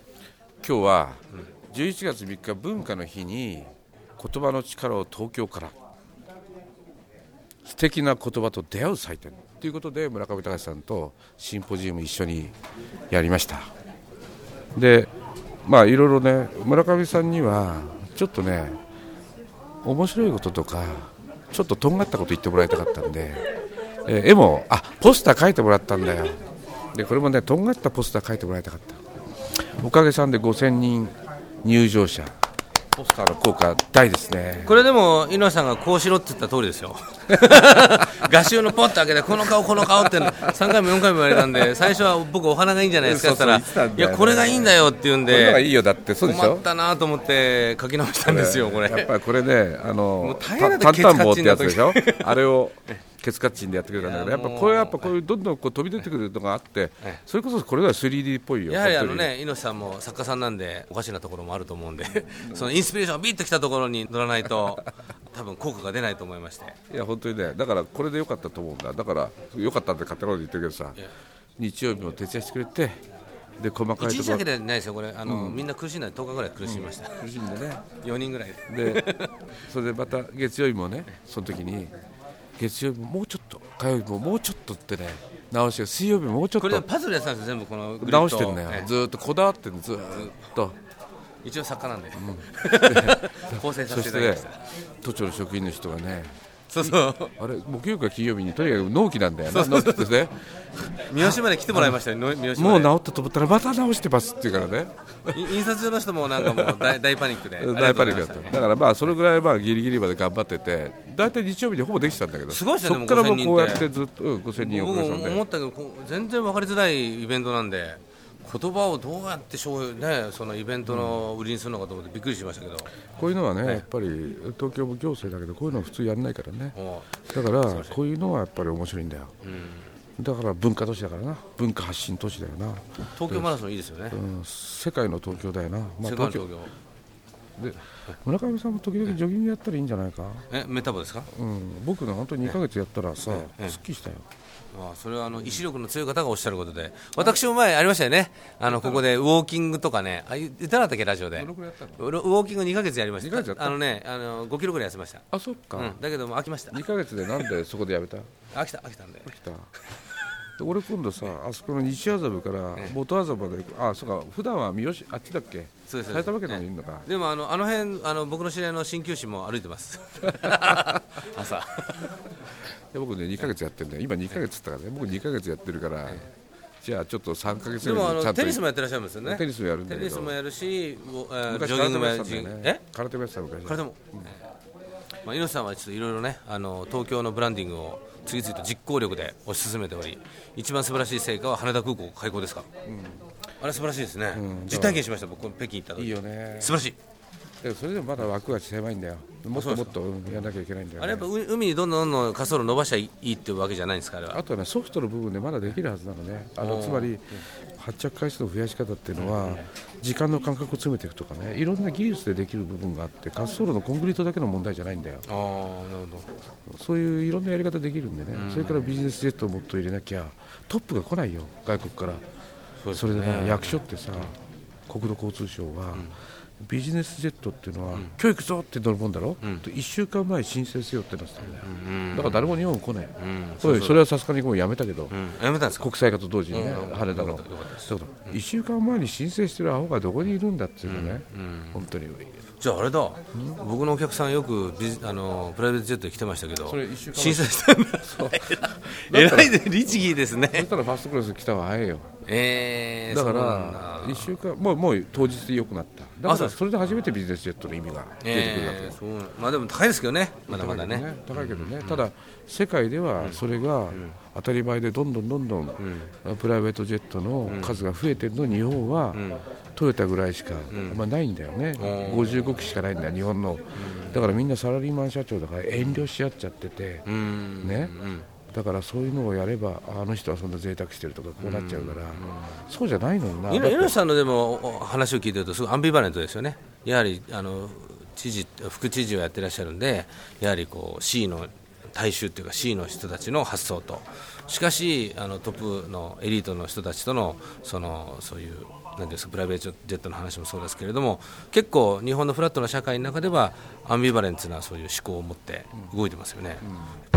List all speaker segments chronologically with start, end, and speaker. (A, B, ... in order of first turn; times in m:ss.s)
0:00.6-0:05.8 A
0:07.6-0:12.6 A
0:13.1-0:13.7 A
0:14.8-0:15.1 A
0:15.6-0:18.8 A
0:19.8-0:23.5 A
0:24.0-0:26.4 A
0:26.9-0:29.0 A
0:29.6-0:32.3 A
0:33.0-0:34.8 A
0:34.6-0:45.7 B
0:37.6-0:38.3 A
0:39.9-0:41.7 A
0:43.0-0:46.7 A
0:46.2-0:49.2 B
0:48.2-0:59.3 A
0:50.2-0:52.5 B
0:54.0-0:55.1 B
0:58.7-1:06.8 B
1:02.3-1:02.8 A
1:06.9-1:11.0 A
1:11.6-1:13.0 A
1:13.6-1:14.5 A
1:14.0-1:17.2 B
1:15.2-1:15.7 A
1:16.6-1:17.8 A
1:18.0-1:19.4 B
1:18.7-1:19.1 A
1:19.7-1:21.9 A
1:22.6-1:26.8 A
1:26.6-1:28.9 B
1:28.0-1:30.8 A
1:30.1-1:30.5 B
1:31.4-1:34.6 B
1:32.2-1:40.4 A
1:36.7-1:37.3 B
1:39.5-1:40.2 B
1:40.9-1:42.0 A
1:41.1-1:42.9 B
1:42.6-1:45.7 A
1:45.3-1:48.6 B
1:46.3-1:47.0 A
1:47.6-1:55.4 A
1:52.5-1:53.9 B
1:54.6-2:02.9 B
2:00.9-2:01.2 A
2:03.1-2:06.8 A
2:06.8-2:08.0 B
2:07.3-2:09.3 A
2:09.4-2:09.9 B
2:10.2-2:16.5 A
2:13.2-2:14.2 B
2:16.0-2:16.7 B
2:17.6-2:20.5 A
2:20.5-2:21.3 B
2:21.3-2:24.2 A
2:23.3-2:23.8 B
2:24.7-2:37.5 B
2:28.7-2:29.1 A
2:31.4-2:32.1 A
2:33.2-2:33.8 A
2:35.3-2:36.0 A
2:36.7-2:38.3 A
2:38.5-2:39.3 B
2:39.3-2:39.7 A
2:40.6-2:47.1 A
2:45.9-2:52.2 B
2:50.3-2:51.0 A
2:52.9-2:56.3 A
2:56.8-2:58.6 A
2:57.8-3:02.8 B
2:59.2-3:00.4 A
3:01.5-3:04.3 A
3:03.7-3:04.3 B
3:05.2-3:12.7 B
3:12.8-3:13.2 A
3:13.6-3:17.0 B
3:14.3-3:15.0 A
3:16.0-3:16.8 A
3:17.6-3:21.3 A
3:19.5-3:20.0 B
3:21.0-3:24.4 B
3:24.3-3:35.2 A
3:26.6-3:27.2 B
3:29.2-3:29.7 B
3:35.3-3:36.3 B
3:36.7-3:42.2 A
3:38.3-3:39.0 B
3:42.8-3:43.8 B
3:42.9-3:44.4 A
3:44.9-3:55.2 A
3:51.4-3:52.6 B
3:53.2-3:54.0 B
3:55.1-3:55.9 B
3:55.8-4:02.4 A
3:56.5-3:58.4 B
4:00.9-4:01.8 B
4:02.6-4:10.7 B
4:06.6-4:09.6 A
4:10.5-4:12.1 A
4:12.3-4:14.4 B
4:13.1-4:19.0 A
4:16.3-4:16.6 B
4:18.2-4:22.0 B
4:20.5-4:37.1 A
4:23.2-4:24.2 B
4:25.8-4:26.1 B
4:27.5-4:27.8 B
4:29.1-4:29.4 B
4:30.7-4:31.0 B
4:31.8-4:32.8 B
4:33.8-4:34.2 B
4:35.8-4:36.1 B
4:37.1-4:38.3 B
4:37.6-4:37.9 A
4:38.5-4:44.0 A
4:41.4-4:42.6 B
4:43.5-5:06.7 B